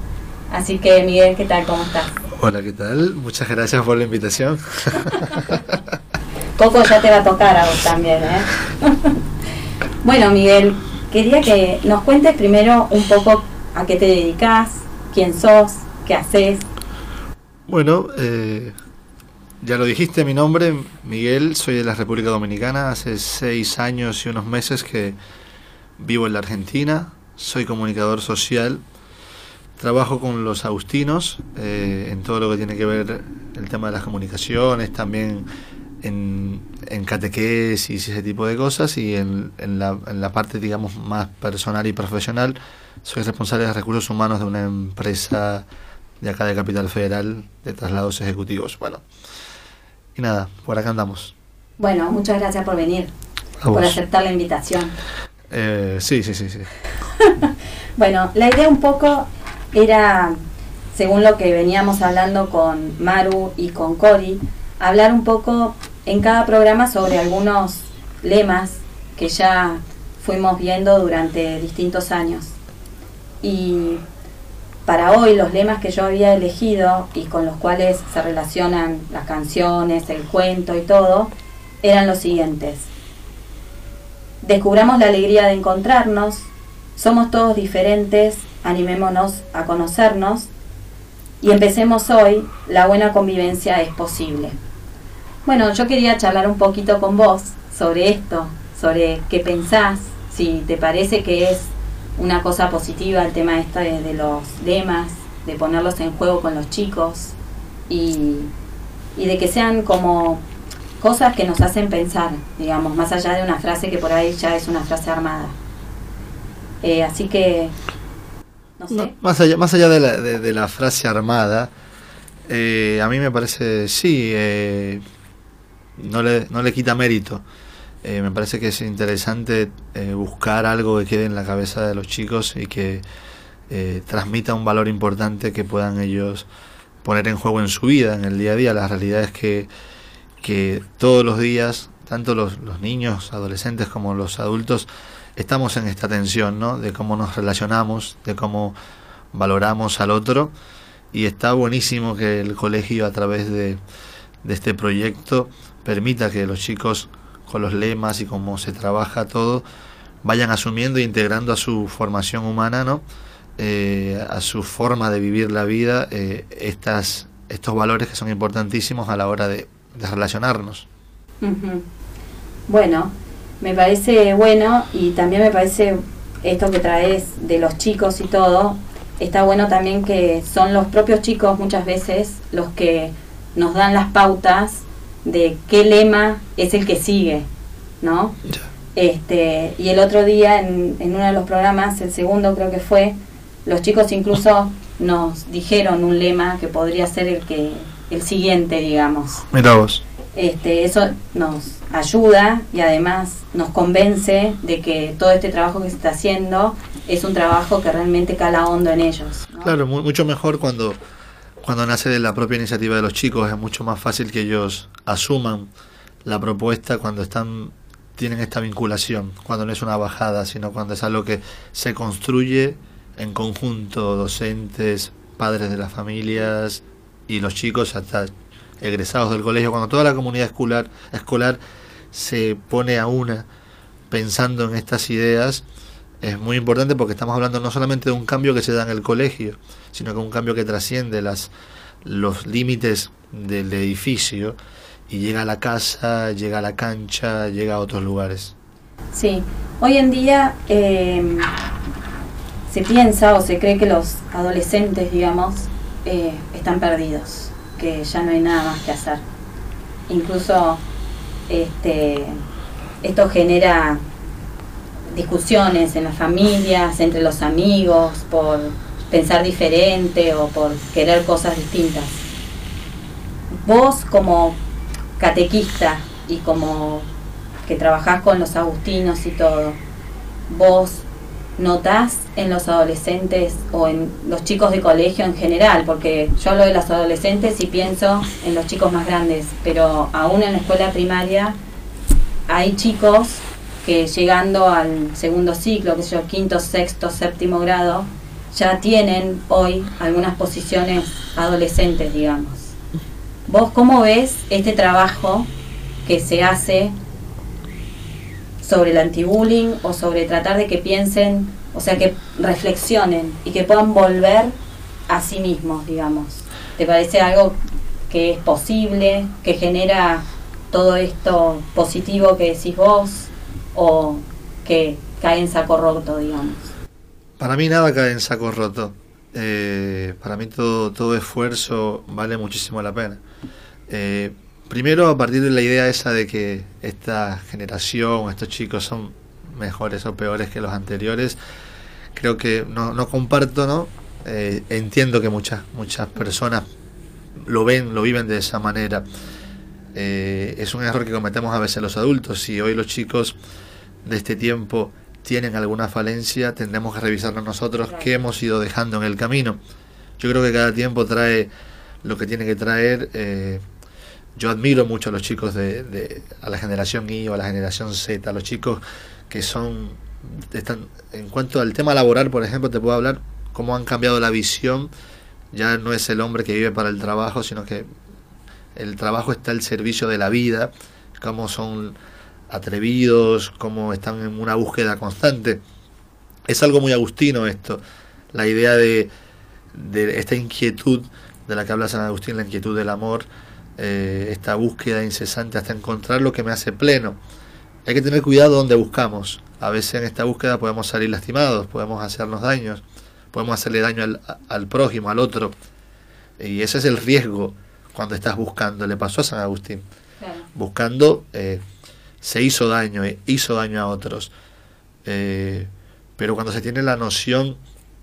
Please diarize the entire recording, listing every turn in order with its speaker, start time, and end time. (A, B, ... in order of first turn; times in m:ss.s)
0:00.5-0:02.2 A
0:02.3-0:05.8 B
0:06.6-0:09.1 A
0:10.0-0:16.6 A
0:17.7-0:18.7 B
0:19.6-0:25.2 B
0:26.0-0:28.8 B
0:29.8-0:35.5 B
0:36.0-0:45.6 B
0:46.2-0:49.0 B
0:50.2-0:51.3 B
0:51.8-0:53.1 A
0:53.6-0:54.0 B
0:53.7-0:55.0 A
0:55.5-0:56.7 B
0:57.2-0:57.4 A
0:58.0-1:00.4 A
1:00.9-1:12.6 A
1:13.4-1:14.0 A
1:14.8-1:22.9 A
1:24.4-1:30.5 A
1:31.4-1:34.6 A
1:35.4-1:47.3 A
1:47.9-1:48.5 A
1:49.2-1:50.4 A
1:51.0-1:55.6 A
1:56.8-1:57.7 A
1:58.8-1:59.1 A
1:58.9-2:01.7 B
2:02.5-2:05.0 B
2:06.0-2:07.4 B
2:08.0-2:13.0 B
2:13.7-2:16.5 B
2:17.0-2:19.7 B
2:20.4-2:28.7 B
2:29.3-2:30.5 B
2:31.1-2:33.8 B
2:34.4-2:39.6 B
2:40.2-2:43.0 B
2:43.6-2:50.9 B
2:51.4-2:51.8 A
2:52.7-3:07.5 A
3:08.0-3:08.4 A
3:08.9-3:19.4 A
3:19.5-3:20.0 B
3:20.3-3:29.7 A
3:29.6-3:31.0 B
3:31.6-3:35.7 B
3:36.2-3:51.6 B
3:52.1-3:53.4 B
3:54.1-3:55.6 B
3:56.2-4:01.5 B
4:02.0-4:04.6 B
4:05.1-4:08.5 B
4:09.1-4:11.5 A
4:12.7-4:19.2 A
4:20.1-4:20.8 A
4:21.5-4:22.4 A
4:23.0-4:24.0 A
4:25.1-4:32.3 A
4:33.5-4:34.6 A
4:35.2-4:37.1 A
4:37.6-4:39.8 A
4:40.5-4:41.0 A
4:41.6-4:51.6 A
4:52.5-5:02.8 A
5:03.5-5:05.5 A
5:06.0-5:06.9 A
5:08.6-5:14.5 A
5:15.1-5:26.7 A
5:27.4-5:33.2 B
5:33.9-5:41.4 B
5:42.1-5:46.6 B
5:47.4-5:49.0 B
5:49.9-5:53.4 B
5:54.0-5:59.6 B
6:00.2-6:01.5 B
6:02.0-6:03.6 B
6:04.4-6:14.9 B
6:15.5-6:17.9 B
6:18.7-6:22.0 B
6:22.5-6:25.6 B
6:26.5-6:27.8 B
6:28.3-6:29.1 B
6:29.7-6:37.2 B
6:37.8-6:45.5 B
6:46.4-6:49.8 B
6:50.2-6:50.5 A
6:50.5-6:51.6 B
6:52.2-6:54.3 B
6:55.0-6:57.6 B